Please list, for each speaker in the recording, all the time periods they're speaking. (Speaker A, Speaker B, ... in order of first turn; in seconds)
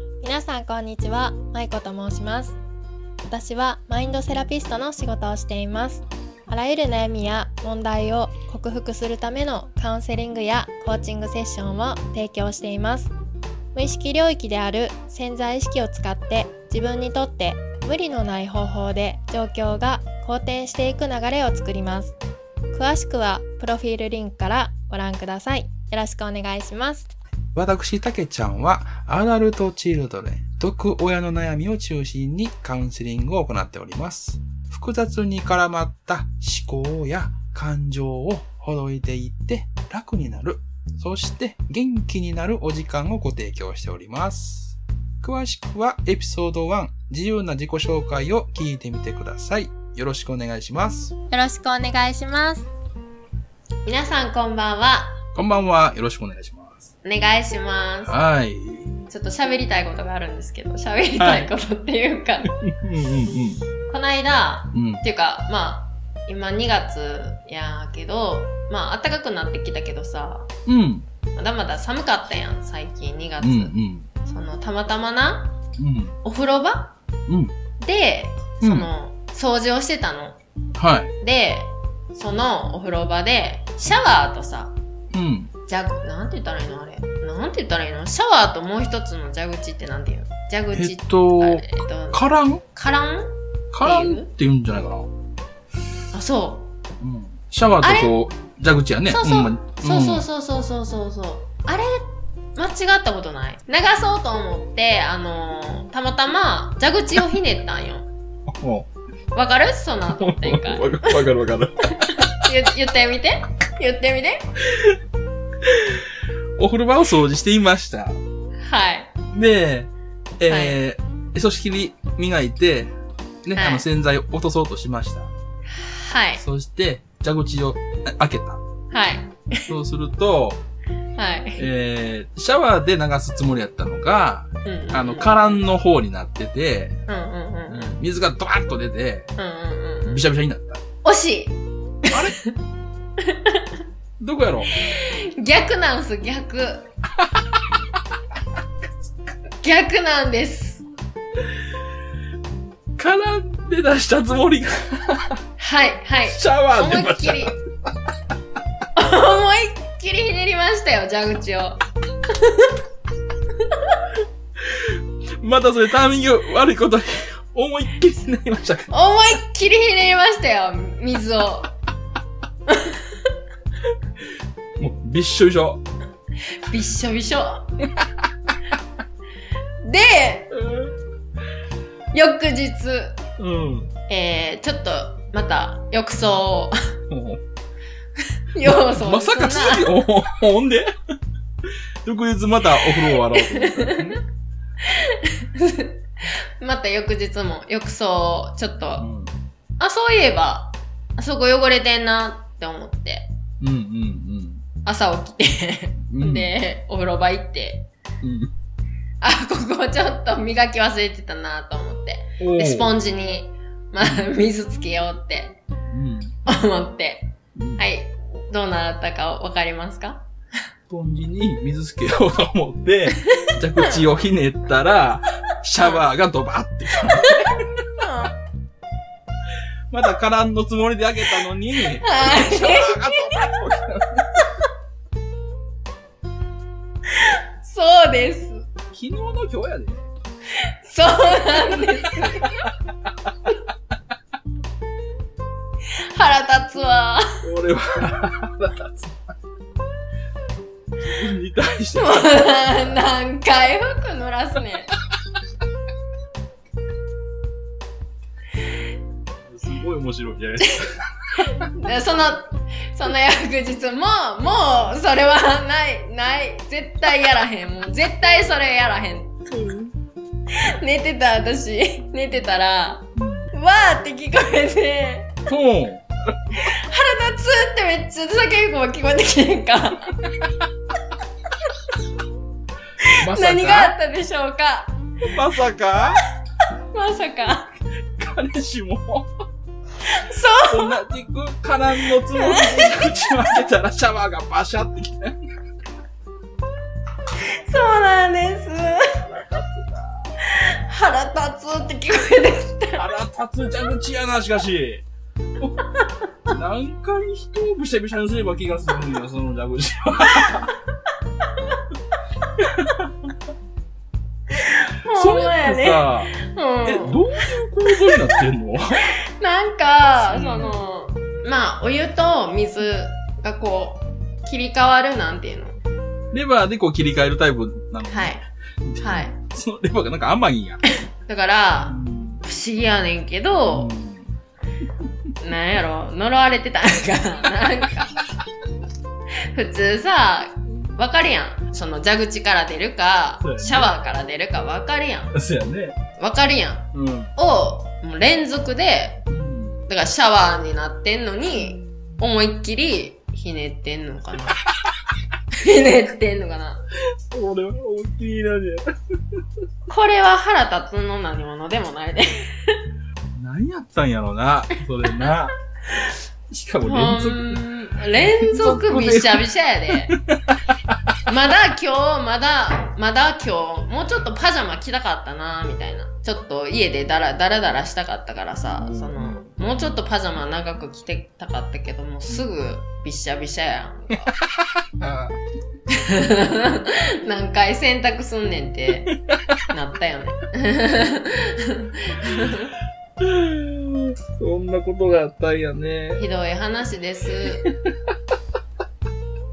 Speaker A: 0.2-2.5, 3.3-13.1, 13.7-22.1, 22.7-27.0, 51.3-52.6, 53.8-55.2, 57.0-58.1, 59.1-62.5, 63.9-70.5, 71.3-75.6, 76.2-77.0, 77.8-80.4, 81.2-84.8, 85.7-94.3, 96.1-96.7, 97.8-98.2, 99.1-108.1, 109.3-111.2, 111.9-114.5, 118.6-119.1, 120.5-120.8, 123.5-123.8, 125.7-126.4, 128.9-129.7, 131.2-131.6, 134.6-135.6, 137.1-138.0, 139.3-140.2, 141.0-142.5, 143.2-143.6, 144.7-146.9, 149.6-150.8, 155.6-157.6, 158.9-162.7, 163.6-163.9, 168.9-171.7, 172.7-173.1, 176.6-177.7, 179.8-180.5, 182.1-183.2, 184.1-186.7, 188.5-189.9, 192.8-194.2, 194.8-199.1, 199.8-203.3, 204.8-207.9, 209.2-215.6, 216.4-220.3, 223.2-223.9, 225.8-226.0, 227.0-228.4, 232.0-233.4, 237.1-238.7, 240.6-242.7, 245.9-247.4, 251.9-254.9, 261.6-269.4, 270.5-275.5, 276.6-280.3, 283.0-285.0, 286.9-287.7, 290.0-291.0, 292.2-293.3, 297.6-299.3, 300.4-303.1, 314.5-317.2, 319.0-325.8, 328.1-328.4, 329.0-329.4, 331.2-333.9, 335.4-338.2, 339.5-345.3, 346.2-349.2, 349.9-354.7, 355.5-356.8, 359.9-362.8, 366.8-370.1, 371.3-384.3, 385.9-389.1, 389.7-392.7, 396.1-397.7
Speaker B: 27.5-51.1, 55.3-56.9, 58.0-58.9, 61.2-61.5, 62.6-63.6, 64.7-65.0, 70.7-71.1, 73.4-74.1, 75.8-76.2, 77.3-77.5, 78.6-78.9, 80.8-81.1, 85.1-85.5, 90.7-92.6, 93.7-95.1, 97.0-100.2, 108.5-108.9, 110.2-112.2, 115.6-116.1, 116.6-118.2, 119.3-122.9, 123.4-125.3, 126.4-128.6, 129.7-130.6, 131.6-136.9, 137.7-139.3, 140.1-140.8, 142.1-142.3, 144.2-144.7, 153.0-155.4, 156.2-157.5, 164.6-168.9, 174.8-175.8, 180.5-180.9, 183.4-183.9, 187.1-187.4, 188.6-190.9, 192.0-194.2, 199.0-199.3, 203.6-204.6, 206.1-206.5, 208.2-208.5, 212.4-212.9, 215.9-216.4, 217.6-217.8, 220.9-227.8, 229.9-234.4, 238.9-240.0, 241.6-242.7, 247.4-249.2, 251.0-253.0, 259.4-261.7, 269.5-269.9, 273.1-273.5, 275.5-276.1, 283.2-283.9, 285.2-286.2, 288.1-289.3, 290.7-295.4, 299.2-300.2, 302.9-305.0, 306.5-310.7, 312.6-313.1, 315.1-319.1, 320.2-320.8, 326.3-330.8, 331.9-332.4, 333.7-334.3, 343.4-343.9, 345.3-346.0, 346.9-347.3, 349.3-349.9, 357.3-359.4, 363.4-365.5, 366.0-367.6, 368.2-369.4, 370.4-371.1, 378.8-380.0, 384.8-385.3, 393.2-396.2, 397.6-397.9